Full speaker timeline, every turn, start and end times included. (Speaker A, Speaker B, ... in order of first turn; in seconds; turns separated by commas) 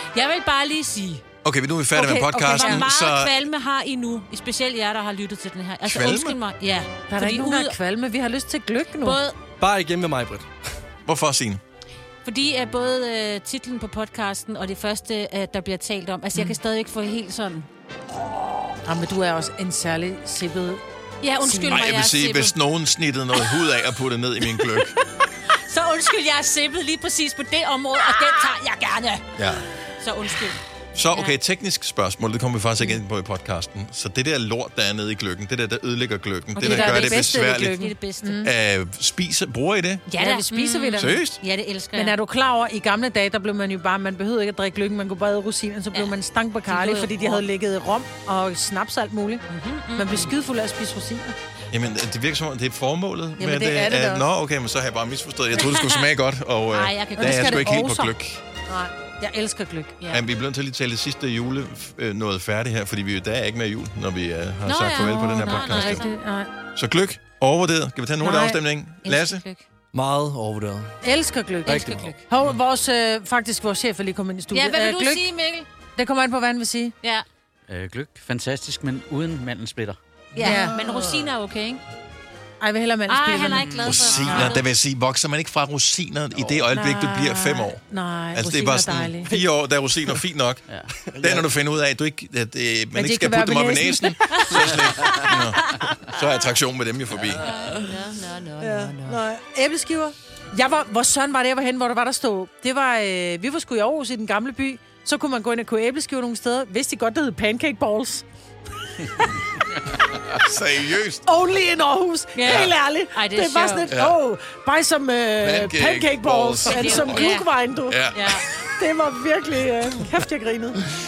Speaker A: 0.1-1.2, Speaker B: 1.4-3.3, Speaker A: 1.9-7.8, Speaker C: 2.5-2.8, Speaker B: 5.8-6.4, Speaker C: 7.1-9.2, Speaker A: 9.0-9.4, Speaker D: 9.6-10.5, Speaker B: 11.0-11.6, Speaker A: 12.2-17.7, Speaker C: 18.9-20.8, Speaker A: 21.2-22.5, Speaker C: 21.4-21.8, Speaker B: 21.7-25.0, Speaker A: 25.5-29.2, Speaker B: 29.4-29.6, Speaker A: 30.0-30.6, Speaker B: 30.9-37.8, Speaker A: 36.5-38.5, Speaker C: 36.6-38.5, Speaker B: 38.4-40.0, Speaker A: 40.1-42.2, Speaker C: 40.2-41.2, Speaker B: 41.0-41.4, Speaker C: 41.9-49.4, Speaker A: 46.6-47.5, Speaker A: 49.5-50.3, Speaker C: 49.9-51.3, Speaker B: 51.7-58.4, Speaker C: 53.4-54.2, Speaker A: 55.6-56.0, Speaker A: 56.7-57.7, Speaker C: 57.2-58.1, Speaker C: 58.7-60.0, Speaker A: 60.0-60.2, Speaker B: 60.1-66.1, Speaker A: 64.7-66.1, Speaker C: 65.5-66.5, Speaker B: 66.7-69.4, Speaker C: 68.2-68.6, Speaker A: 69.0-69.6, Speaker D: 69.9-71.0, Speaker C: 71.0-75.2, Speaker D: 71.6-72.2, Speaker A: 74.5-75.7, Speaker C: 76.0-76.9, Speaker E: 77.7-80.0, Speaker A: 80.3-81.8, Speaker C: 80.4-80.8, Speaker C: 82.6-84.5, Speaker A: 83.1-84.6, Speaker B: 83.8-87.8, Speaker C: 86.7-89.3, Speaker B: 88.3-90.6, Speaker D: 91.0-91.5, Speaker B: 91.2-97.4, Speaker C: 92.9-94.5, Speaker A: 97.4-99.2, Speaker C: 98.6-108.2, Speaker B: 110.2-111.2, Speaker C: 111.2-118.0, Speaker A: 112.3-113.9, Speaker B: 113.9-114.1, Speaker B: 115.4-117.3, Speaker A: 116.6-117.5, Speaker B: 117.9-118.4, Speaker A: 118.1-118.5, Speaker C: 118.8-120.8